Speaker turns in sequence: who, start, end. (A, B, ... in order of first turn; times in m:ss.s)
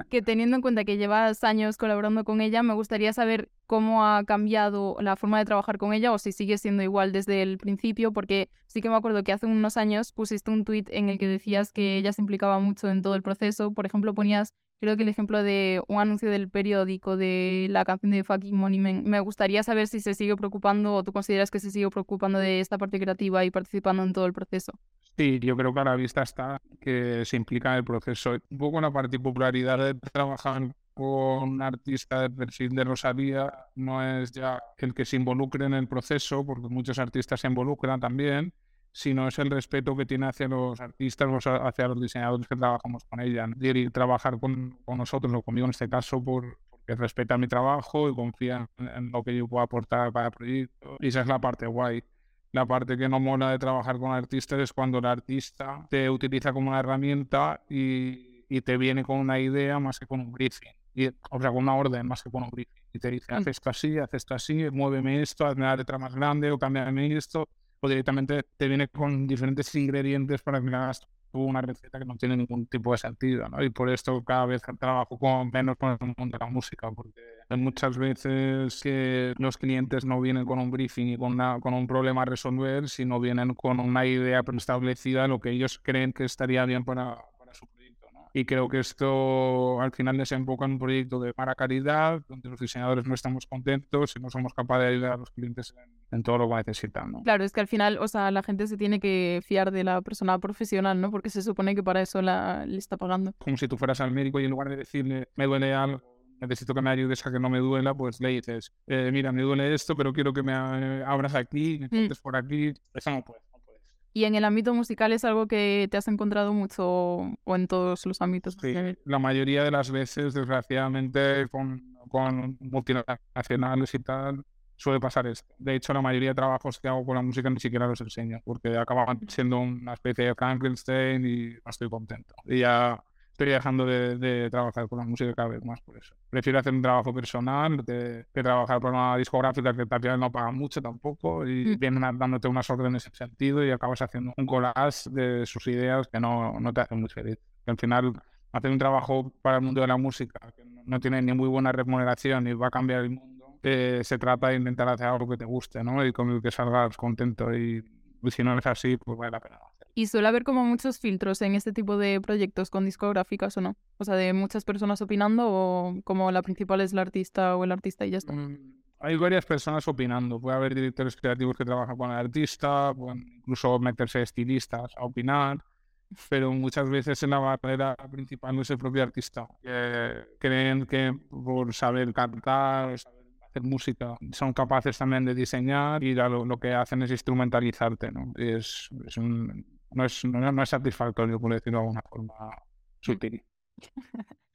0:00.1-0:24.8 A
0:25.2-1:37.2 B
1:37.2-1:43.4 A
1:43.4-1:53.8 B
1:54.1-1:58.9 A
1:58.6-2:39.8 B
2:40.0-2:48.3 A
2:48.3-2:55.6 B
2:56.3-3:13.4 B